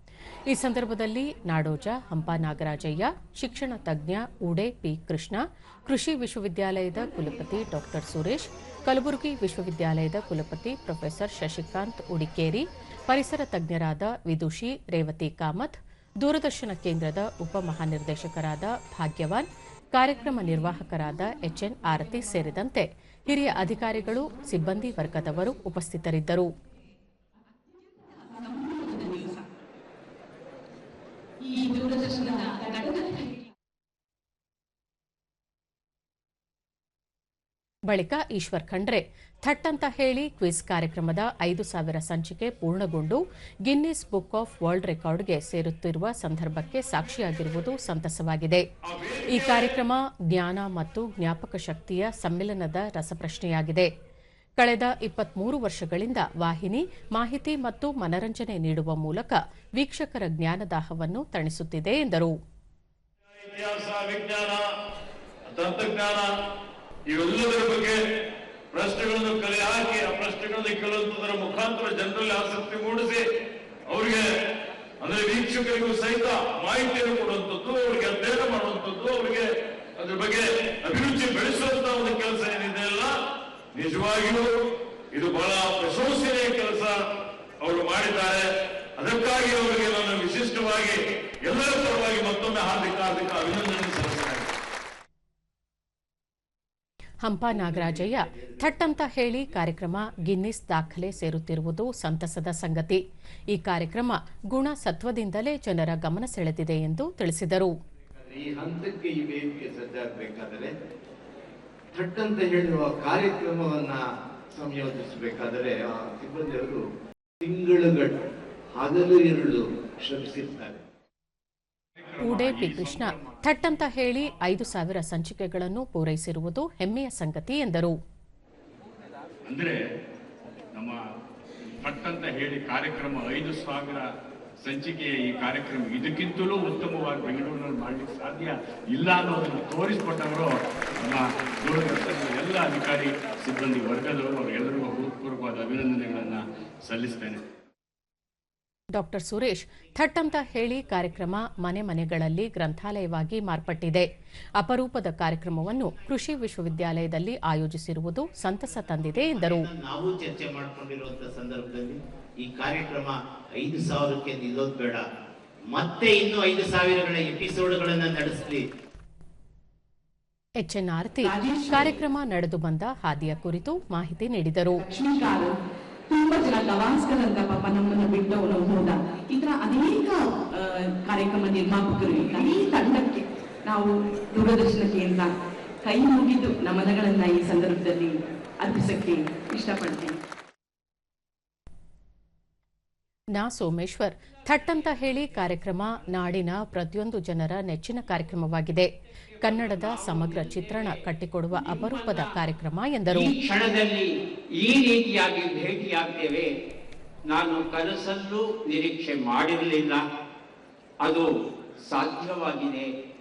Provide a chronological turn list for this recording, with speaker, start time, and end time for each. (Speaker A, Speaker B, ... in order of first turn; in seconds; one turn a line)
Speaker A: 0.5-26.5
Speaker B: 28.1-29.4
Speaker B: 31.4-33.4
Speaker A: 37.9-48.7
Speaker C: 48.9-49.8
Speaker A: 49.2-53.9
Speaker A: 54.6-62.3
Speaker C: 63.3-64.7
Speaker C: 65.5-66.3
Speaker C: 67.1-68.0
Speaker C: 68.7-73.2
Speaker C: 73.9-74.3
Speaker C: 75.0-83.2
Speaker C: 83.7-87.0
Speaker C: 87.6-94.5
Speaker A: 97.2-107.7
Speaker D: 108.3-110.7
Speaker D: 111.9-116.8
Speaker D: 117.4-118.2
Speaker D: 118.7-120.8
Speaker E: 122.0-123.3
Speaker A: 122.2-127.9
Speaker E: 129.4-129.8
Speaker E: 131.8-134.1
Speaker E: 134.6-147.4
Speaker A: 148.9-154.1
Speaker A: 154.6-159.7
Speaker F: 159.3-165.0
Speaker F: 165.7-168.6
Speaker A: 170.6-174.8
Speaker B: 171.2-171.9
Speaker B: 174.7-175.5
Speaker B: 176.1-185.3
Speaker B: 185.8-190.2
Speaker A: 193.3-198.9
Speaker A: 199.4-203.3
Speaker G: 199.5-200.9
Speaker G: 201.5-202.3
Speaker G: 203.1-206.5
Speaker G: 207.2-210.0
Speaker G: 211.0-211.3
Speaker G: 211.9-212.9